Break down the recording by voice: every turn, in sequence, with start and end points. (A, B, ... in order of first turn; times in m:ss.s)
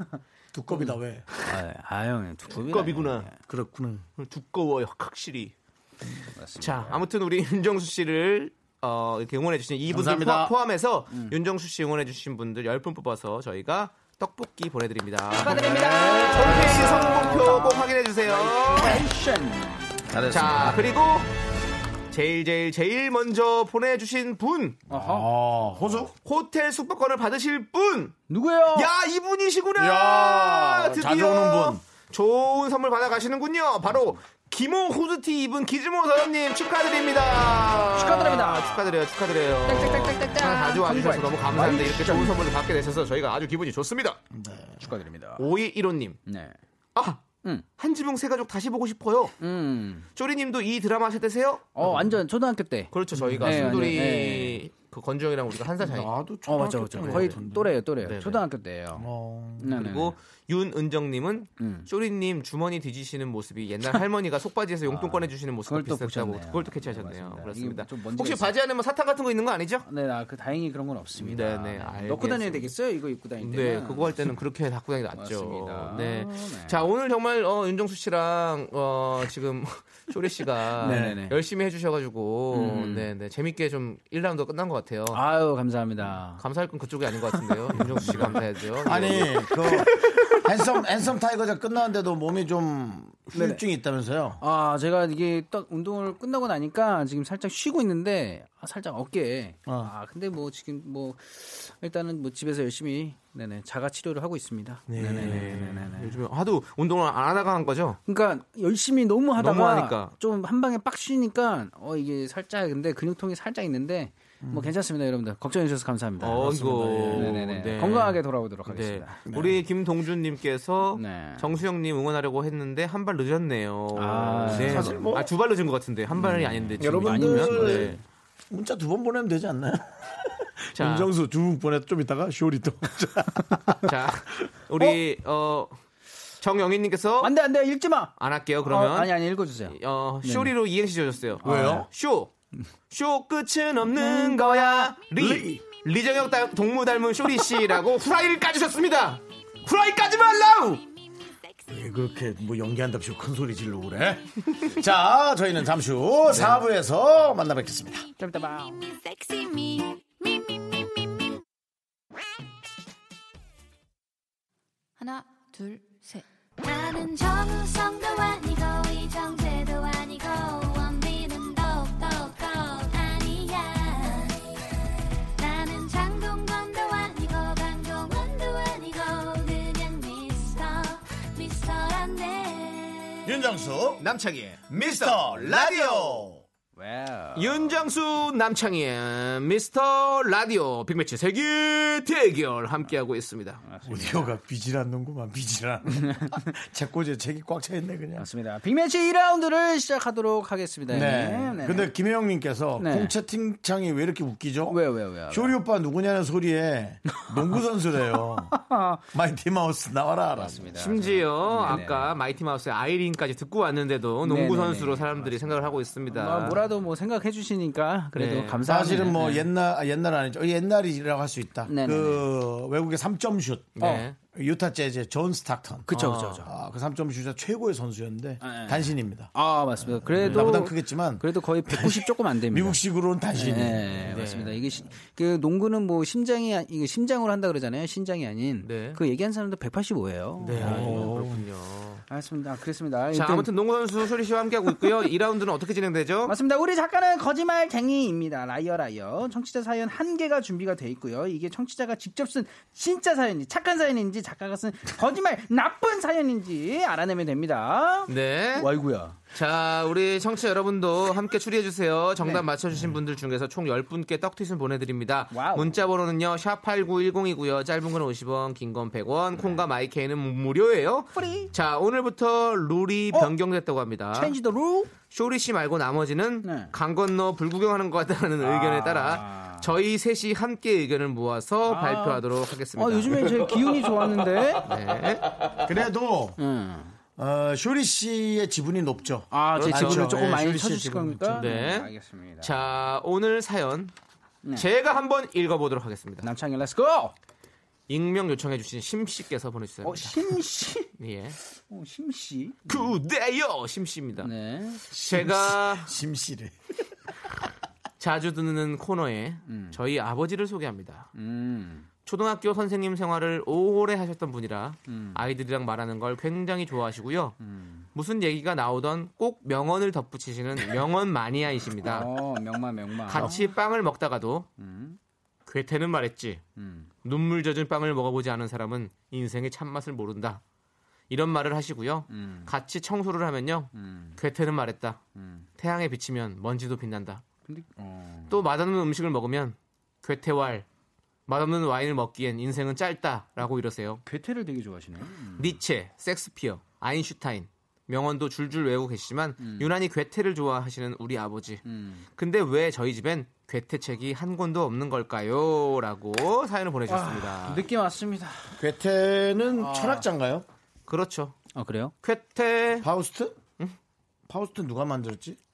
0:00.5-0:01.4 A
0:00.7-0:03.4 B
0:02.5-0:03.3 C
0:03.5-0:04.1 A
0:04.2-0:05.5 C
0:06.4-0:07.0 B
0:06.6-0:19.0 C
0:09.9-0:10.5 A
0:11.1-0:11.4 B
0:15.4-0:19.9 B
0:15.7-0:17.4 A
0:20.1-0:20.9 A
0:20.3-0:21.3 C
0:22.1-0:24.8 C
0:24.9-0:25.3 B
0:24.9-0:26.1 A
0:26.0-0:28.2 C
0:28.3-0:28.9 B
0:28.7-0:44.2 C
0:29.8-0:31.8 A
0:38.0-0:39.0 B
0:39.7-0:42.4 B
0:44.3-0:44.8 A
0:44.8-0:45.4 B
0:45.4-0:46.2 C
0:46.3-0:46.6 B
0:47.0-0:49.4 C
0:49.4-0:50.1 B
0:50.2-0:52.1 C
0:51.8-0:54.6 B
0:52.9-0:56.1 C
0:53.2-0:53.7 A
0:55.8-0:57.8 A
0:56.5-0:59.1 B
0:57.0-0:57.4 C
0:58.0-0:58.4 C
0:59.0-0:59.8 A
0:59.6-1:00.2 B
0:59.7-1:09.9 C
1:01.6-1:01.9 B
1:04.9-1:08.5 B
1:09.8-1:14.3 B
1:11.2-1:12.7 C
1:13.4-1:25.2 C
1:15.2-1:16.8 B
1:20.8-1:21.4 B
1:20.8-1:21.2 A
1:22.5-1:23.1 B
1:25.1-1:26.4 B
1:26.4-1:29.5 C
1:28.0-1:28.3 B
1:28.8-1:34.4 A
1:33.3-1:33.6 B
1:34.4-1:46.2 B
1:39.7-1:39.9 A
1:44.9-1:45.4 A
1:44.9-1:48.0 C
1:48.1-1:59.2 B
1:49.4-1:50.1 C
1:54.4-1:54.7 A
1:56.2-2:08.0 C
1:56.4-1:57.4 A
1:59.3-1:59.6 A
2:01.0-2:01.5 B
2:04.0-2:05.2 B
2:04.5-2:05.3 A
2:06.2-2:08.0 A
2:06.8-2:08.0 B
2:08.5-2:13.9 A
2:10.8-2:11.1 C
2:13.8-2:15.8 C
2:16.4-2:17.3 C
2:17.2-2:18.1 B
2:18.2-2:22.3 C
2:18.6-2:20.5 B
2:21.4-2:21.9 B
2:21.4-2:21.9 A
2:22.9-2:30.8 C
2:23.9-2:25.0 B
2:25.2-2:25.6 A
2:31.7-2:38.1 A
2:36.3-2:36.6 C
2:38.2-2:38.8 B
2:38.4-2:41.3 D
2:45.0-2:54.4 D
2:55.4-3:03.3 D
3:03.2-3:04.0 A
3:04.0-3:06.3 C
3:04.7-3:06.4 A
3:06.8-3:07.8 B
3:07.4-3:13.6 C
3:13.6-3:14.3 B
3:13.8-3:18.3 A
3:18.2-3:21.9 B
3:20.9-3:24.8 A
3:22.8-3:23.2 B
3:24.7-3:25.6 B
3:25.3-3:28.6 A
3:27.1-3:27.6 B
3:28.2-3:29.0 B
3:29.1-3:30.8 A
3:30.4-3:32.2 B
3:30.8-3:36.7 C
3:34.2-3:39.5 B
3:38.2-3:38.7 C
3:38.6-3:43.8 A
3:41.7-3:42.2 B
3:43.8-3:44.2 C
3:43.8-3:44.1 B
3:44.3-3:45.9 A
3:45.9-3:46.5 B
3:45.9-3:46.4 C
3:46.4-3:54.0 A
3:48.4-3:52.8 B
3:50.2-3:50.6 C
3:53.4-4:01.1 B
3:54.0-3:54.6 C
3:58.6-3:59.0 C
4:00.4-4:02.0 C
4:00.6-4:01.4 A
4:02.1-4:03.5 B
4:03.1-4:06.4 C
4:06.3-4:19.2 B
4:18.1-4:18.8 C
4:19.3-4:34.4 C
4:25.3-4:25.8 B
4:29.4-4:29.6 B
4:31.2-4:31.5 B
4:34.1-4:34.9 B
4:35.1-4:43.7 C
4:36.4-4:36.7 B
4:38.4-4:39.7 B
4:41.7-4:42.2 B
4:42.8-4:44.7 B
4:44.6-4:45.3 C
4:45.7-4:46.4 A
4:46.4-4:47.0 B
4:47.2-4:51.4 A
4:49.3-4:52.5 B
4:49.6-4:50.2 C
4:51.3-4:53.9 C
4:54.5-4:56.3 C
4:56.2-4:57.2 B
4:57.9-5:00.4 C
4:59.8-5:00.9 B
5:01.0-5:01.4 C
5:01.7-5:02.9 B
5:02.7-5:04.3 C
5:04.2-5:04.8 B
5:04.9-5:06.6 A
5:04.9-5:05.9 C
5:08.0-5:11.1 C
5:09.5-5:09.8 B
5:11.2-5:11.9 B
5:12.0-5:17.4 C
5:14.9-5:15.2 B
5:17.4-5:17.9 B
5:18.0-5:22.1 C
5:21.8-5:23.4 B
5:23.1-5:24.5 C
5:24.6-5:25.0 B
5:25.5-5:26.4 C
5:26.6-5:26.9 B
5:27.0-5:30.4 C
5:31.1-5:35.0 C
5:32.1-5:32.5 B
5:33.7-5:34.2 B
5:35.2-5:35.5 B
5:35.6-5:37.2 C
5:37.5-5:38.4 B
5:38.3-5:40.7 C
5:41.3-5:44.0 C
5:44.0-5:45.6 B
5:45.4-5:51.6 C
5:49.4-5:49.7 B
5:51.6-5:52.1 B
5:52.2-5:57.7 C
5:56.9-5:58.6 B
5:58.6-6:00.5 A
5:59.6-6:00.1 B
6:00.9-6:01.4 C
6:01.5-6:01.9 B
6:02.0-6:02.9 C
6:02.8-6:03.4 A
6:04.3-6:05.4 A